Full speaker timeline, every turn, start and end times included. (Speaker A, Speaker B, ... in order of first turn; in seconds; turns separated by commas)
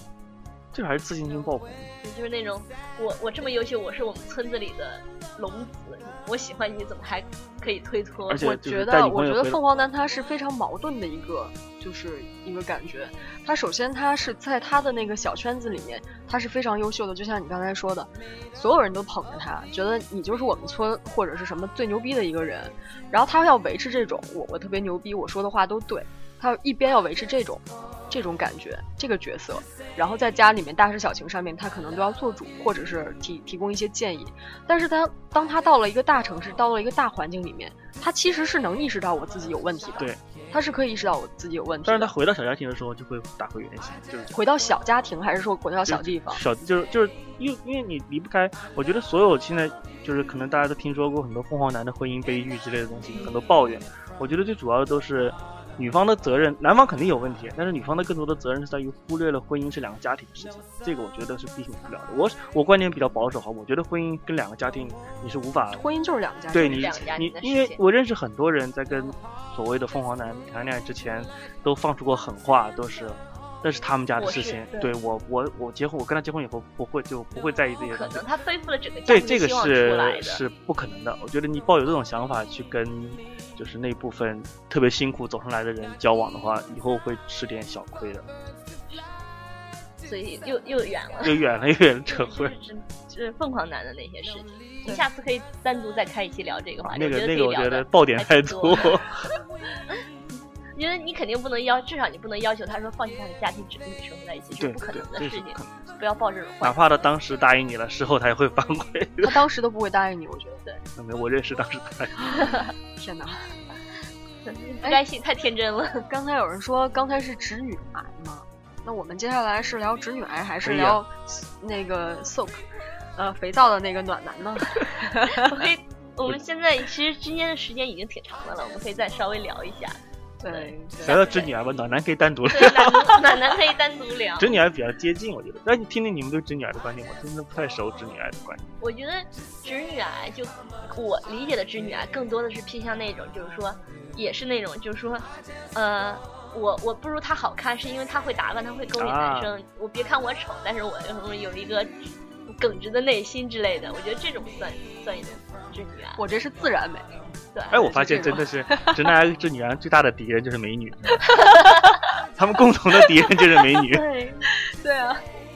Speaker A: 0.7-1.9, Speaker B: 2.0-8.5, Speaker A: 8.3-9.6, Speaker C: 8.4-42.1, Speaker A: 41.9-44.3, Speaker C: 44.3-46.4, Speaker A: 45.9-65.8, Speaker C: 65.7-67.0, Speaker A: 66.5-78.2, Speaker B: 66.6-67.8, Speaker B: 74.2-74.9, Speaker B: 77.8-80.4, Speaker A: 79.1-88.2, Speaker B: 90.0-91.4, Speaker A: 91.2-92.5, Speaker B: 92.1-98.9, Speaker A: 96.8-99.2, Speaker B: 100.7-106.8, Speaker A: 104.6-105.9, Speaker A: 106.6-109.4, Speaker C: 109.2-110.6, Speaker A: 111.0-112.5, Speaker B: 112.4-112.6, Speaker C: 112.9-113.5, Speaker B: 114.4-116.0, Speaker C: 116.0-122.6, Speaker A: 120.6-121.0, Speaker C: 123.2-125.6, Speaker B: 125.3-131.5, Speaker C: 130.4-131.1, Speaker A: 131.0-133.3, Speaker B: 132.5-134.6, Speaker A: 134.4-138.6, Speaker B: 138.8-156.2, Speaker A: 148.9-149.5, Speaker C: 156.2-157.1, Speaker B: 157.5-157.9, Speaker A: 157.7-161.3, Speaker C: 157.7-159.1, Speaker B: 161.4-162.0, Speaker A: 162.3-164.0, Speaker B: 163.9-164.5, Speaker C: 164.5-165.2